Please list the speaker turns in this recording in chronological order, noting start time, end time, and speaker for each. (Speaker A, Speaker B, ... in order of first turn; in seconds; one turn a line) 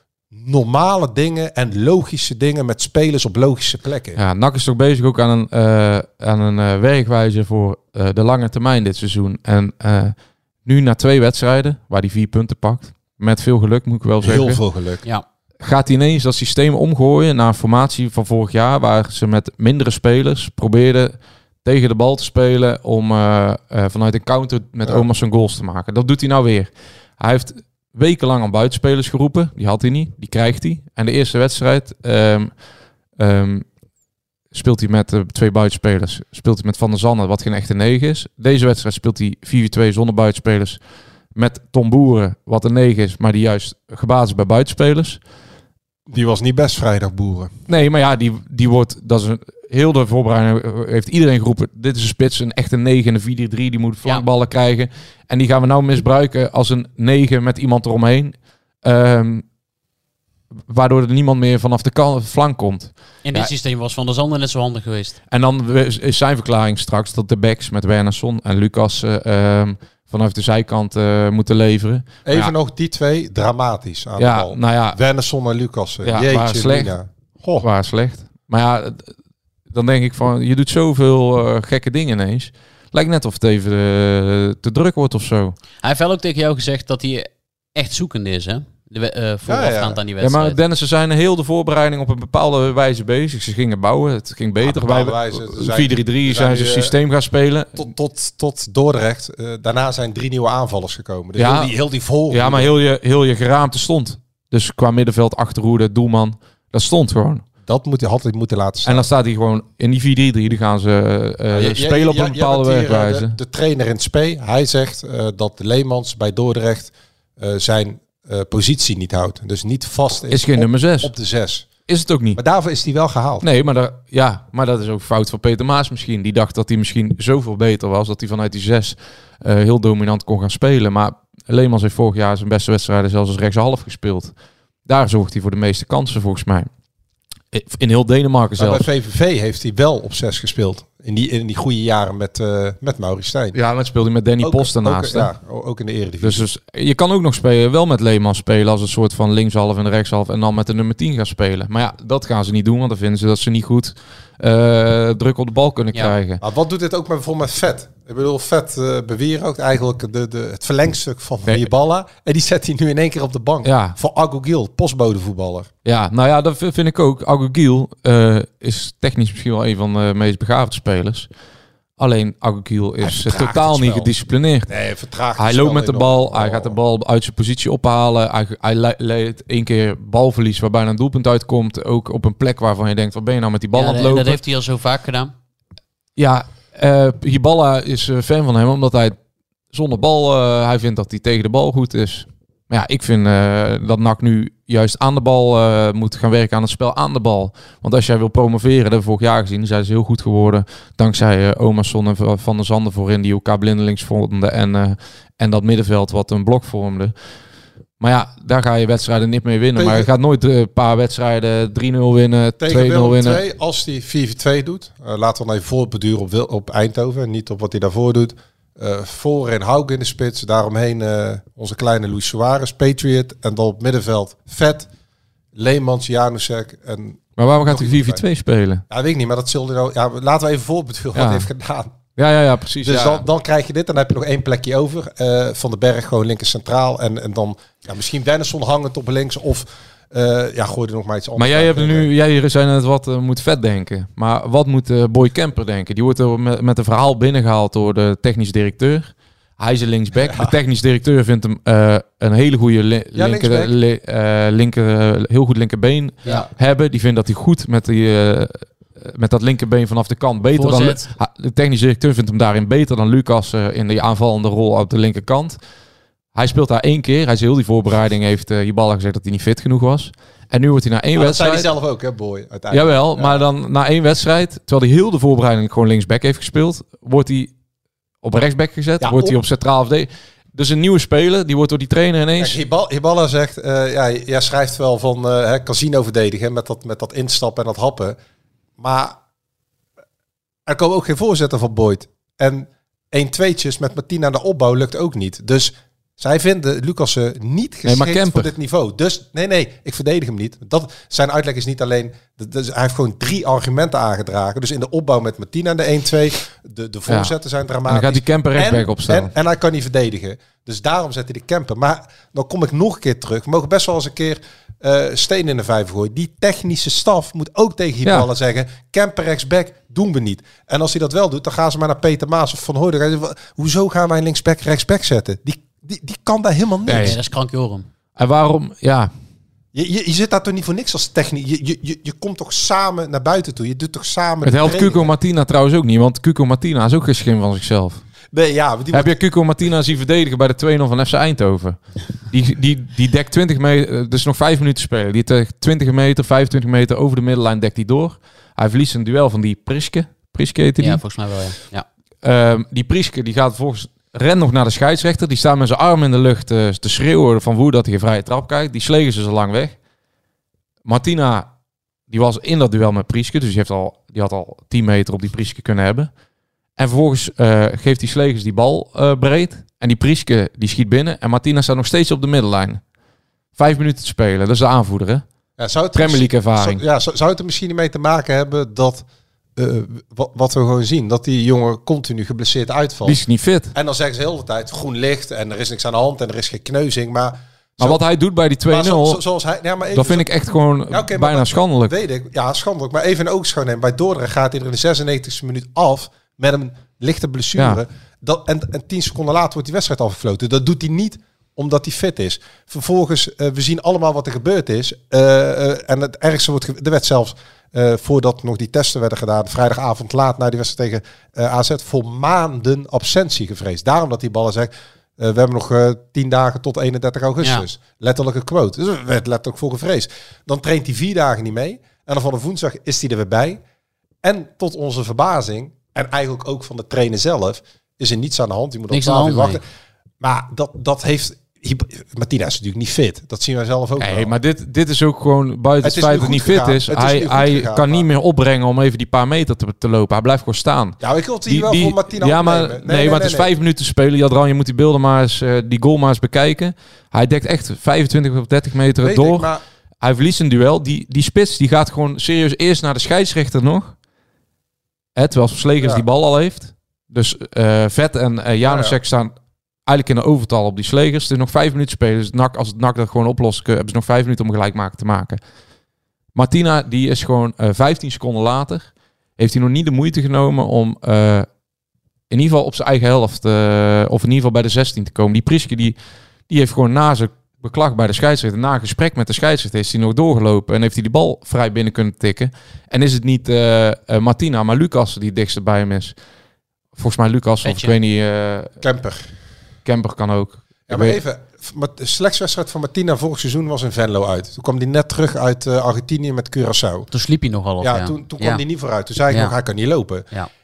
Speaker A: 0.3-4.2
Speaker B: 4.2-14.6
Speaker A: 14.2-15.0
Speaker B: 15.6-32.6
Speaker B: 33.2-33.7
Speaker B: 34.5-40.8
Speaker B: 41.4-45.2
Speaker A: 46.1-47.5
Speaker B: 47.7-59.5
Speaker B: 60.7-63.5
Speaker C: 63.2-65.2
Speaker B: 65.3-72.5
Speaker A: 72.2-77.7
Speaker B: 74.2-75.0
Speaker B: 76.0-76.9
Speaker B: 77.6-79.2
Speaker B: 79.7-85.6
Speaker C: 85.8-90.6
Speaker A: 89.5-90.0
Speaker B: 90.2-97.9
Speaker A: 94.6-97.0
Speaker A: 97.8-102.7
Speaker B: 101.4-101.7
Speaker B: 102.3-107.5
Speaker A: 107.7-109.1
Speaker B: 108.8-113.3
Speaker A: 111.5-121.7
Speaker B: 120.3-121.1
Speaker B: 121.9-122.4
Speaker A: 122.3-123.5
Speaker B: 123.4-134.3
Speaker B: 134.9-136.7
Speaker B: 137.5-138.9
Speaker A: 138.6-143.6
Speaker B: 143.5-145.3
Speaker A: 144.4-146.5
Speaker B: 146.2-156.4
Speaker A: 156.4-165.7
Speaker B: 163.7-164.0
Speaker B: 165.8-171.3
Speaker B: 172.0-174.7
Speaker A: 173.0-174.1
Speaker A: 174.7-176.8
Speaker B: 175.4-184.4
Speaker C: 183.7-185.3
Speaker B: 186.2-189.2
Speaker B: 189.7-207.1
Speaker B: 208.0-213.4
Speaker A: 209.8-210.1
Speaker A: 212.6-224.9
Speaker A: 225.6-228.2
Speaker B: 227.4-228.8
Speaker A: 228.9-232.0
Speaker B: 231.2-231.5
Speaker B: 232.2-233.2
Speaker A: 232.8-242.1
Speaker B: 241.4-265.6
Speaker A: 250.2-250.5
Speaker A: 253.1-253.7
Speaker C: 260.5-261.1
Speaker B: 266.3-271.7
Speaker A: 271.1-273.4
Speaker B: 272.7-277.5
Speaker B: 278.2-282.6
Speaker A: 279.0-279.4
Speaker A: 282.4-288.2
Speaker A: 288.8-289.2
Speaker A: 290.7-327.2
Speaker B: 297.9-298.5
Speaker B: 307.9-309.3
Speaker B: 326.9-327.2
Speaker C: 326.9-327.9
Speaker B: 328.2-329.1
Speaker A: 329.7-335.1
Speaker B: 334.4-338.1
Speaker A: 338.3-339.2
Speaker B: 338.9-351.0
Speaker C: 350.8-351.9
Speaker B: 352.2-359.8
Speaker B: 360.9-361.5
Speaker B: 362.1-366.1
Speaker B: 366.8-372.8
Speaker B: 373.6-375.2
Speaker A: 375.6-383.2
Speaker B: 375.9-376.8
Speaker B: 383.1-383.7
Speaker A: 383.7-388.0
Speaker B: 387.8-389.2
Speaker A: 388.7-390.3
Speaker B: 389.9-391.9
Speaker A: 390.9-423.6
Speaker B: 397.6-397.8
Speaker C: 417.4-417.7
Speaker A: 424.2-429.6
Speaker C: 428.9-429.6
Speaker A: 430.2-434.3
Speaker B: 434.0-449.5
Speaker A: 435.8-438.1
Speaker A: 441.0-443.5
Speaker A: 449.0-449.6
Speaker B: 450.0-453.9
Speaker B: 455.2-459.3
Speaker A: 458.6-459.0
Speaker B: 459.9-465.4
Speaker B: 466.3-471.5
Speaker B: 472.3-476.0
Speaker B: 476.5-486.1
Speaker B: 487.0-488.7
Speaker C: 487.6-487.9
Speaker A: 488.8-489.3
Speaker B: 489.9-491.2
Speaker A: 490.9-497.1
Speaker C: 497.1-498.6
Speaker A: 497.8-500.3
Speaker C: 499.3-499.6